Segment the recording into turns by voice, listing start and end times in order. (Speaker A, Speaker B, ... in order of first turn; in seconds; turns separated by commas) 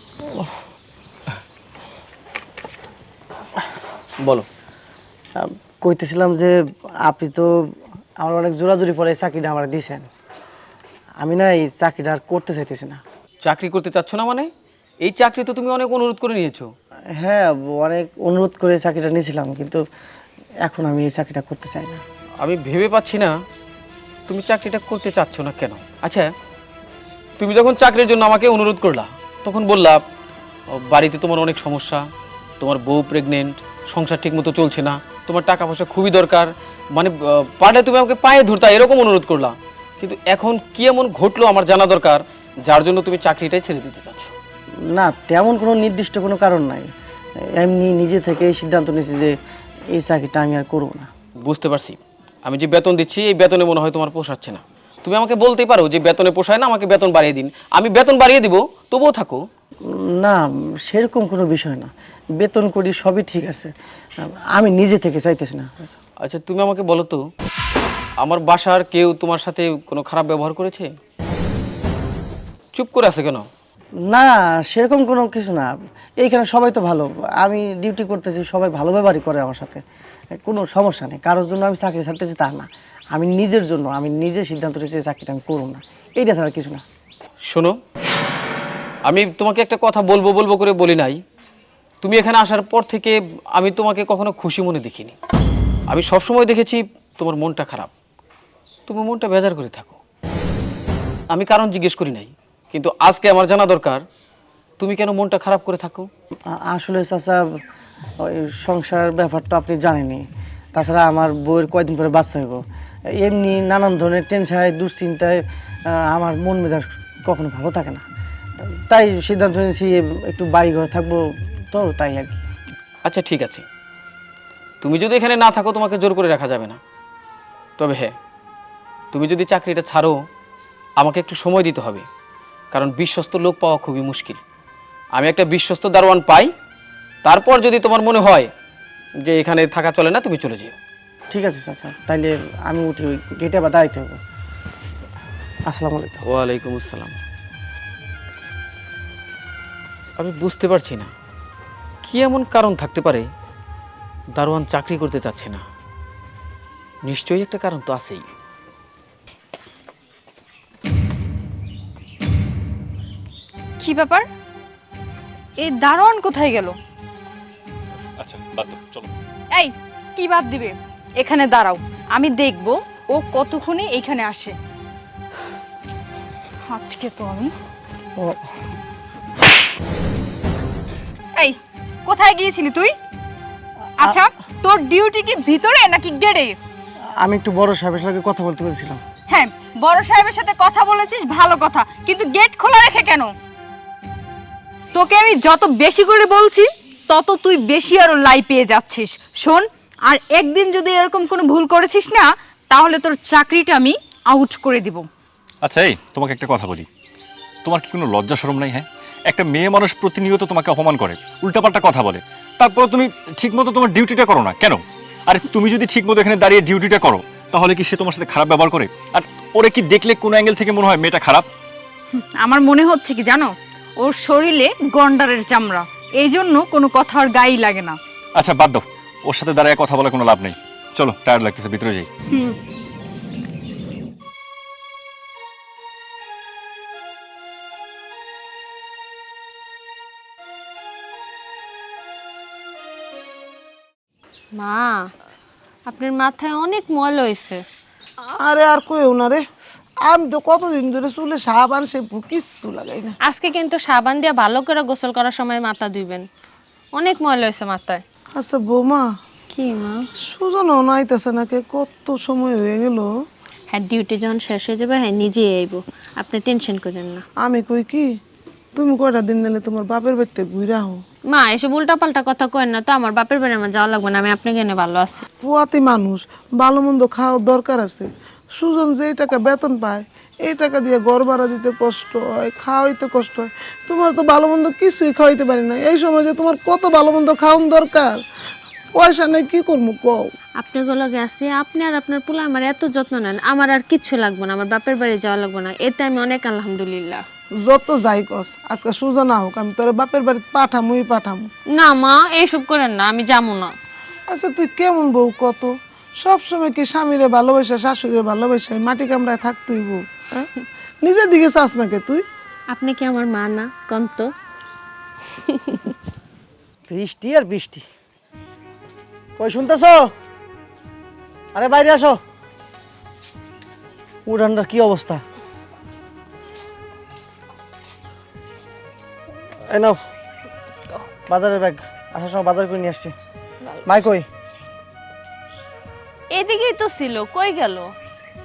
Speaker A: 5.4-10.1, Speaker A: 11.2-13.0, Speaker B: 13.4-14.5, Speaker B: 15.0-16.7, Speaker A: 17.2-19.8, Speaker A: 20.6-22.0, Speaker B: 22.4-23.3, Speaker B: 24.3-26.3, Speaker B: 27.4-30.0, Speaker B: 30.7-32.1, Speaker B: 32.6-44.3, Speaker A: 44.9-49.4, Speaker A: 49.9-51.1, Speaker B: 51.4-59.4, Speaker A: 59.9-66.0, Speaker B: 66.2-67.2, Speaker B: 68.2-70.9, Speaker B: 72.7-73.5, Speaker A: 74.1-75.7, Speaker A: 76.2-79.8, Speaker A: 80.4-86.8, Speaker B: 87.5-87.8, Speaker B: 89.0-91.2, Speaker B: 92.0-95.2, Speaker B: 95.9-97.9, Speaker B: 98.9-100.0, Speaker B: 101.3-104.0, Speaker B: 104.8-106.1, Speaker A: 106.5-107.6, Speaker A: 108.2-118.0, Speaker A: 118.6-122.4, Speaker B: 123.0-123.6, Speaker B: 124.8-126.8, Speaker B: 127.8-128.1, Speaker B: 129.1-130.2, Speaker B: 131.0-132.1, Speaker B: 132.7-134.4, Speaker B: 135.1-136.5, Speaker B: 137.2-138.5, Speaker B: 139.2-140.8, Speaker A: 141.3-144.2, Speaker A: 145.7-146.2, Speaker B: 146.3-147.2, Speaker B: 150.2-151.1, Speaker B: 152.0-153.2, Speaker B: 154.3-155.6, Speaker B: 157.0-158.3, Speaker C: 163.8-164.2, Speaker C: 165.6-166.8, Speaker D: 168.2-169.1, Speaker C: 169.5-174.5, Speaker C: 176.7-177.5, Speaker C: 181.3-182.9, Speaker C: 184.0-186.5, Speaker A: 187.2-189.0, Speaker C: 189.3-193.3, Speaker C: 194.9-205.1, Speaker D: 205.6-206.8, Speaker D: 207.6-221.4, Speaker C: 222.1-228.0, Speaker D: 228.3-232.1, Speaker E: 244.5-245.1, Speaker E: 245.9-247.6, Speaker F: 248.4-249.4, Speaker F: 250.0-253.2, Speaker E: 253.2-256.2, Speaker E: 256.9-258.0, Speaker F: 258.4-259.1, Speaker E: 259.5-260.0, Speaker F: 260.2-263.1, Speaker E: 263.7-267.2, Speaker F: 267.4-268.1, Speaker F: 268.8-271.0, Speaker E: 271.3-275.2, Speaker F: 275.4-288.2, Speaker F: 288.9-290.2, Speaker E: 290.6-297.2, Speaker F: 297.6-301.5, Speaker E: 301.7-303.7, Speaker F: 304.3-310.5, Speaker F: 311.0-312.2, Speaker E: 312.7-314.3, Speaker E: 315.5-315.9, Speaker A: 316.9-317.9, Speaker A: 319.4-320.1, Speaker A: 321.5-322.2, Speaker A: 324.2-325.2, Speaker A: 329.7-330.0, Speaker A: 331.3-333.1, Speaker A: 333.9-334.3, Speaker E: 336.3-337.9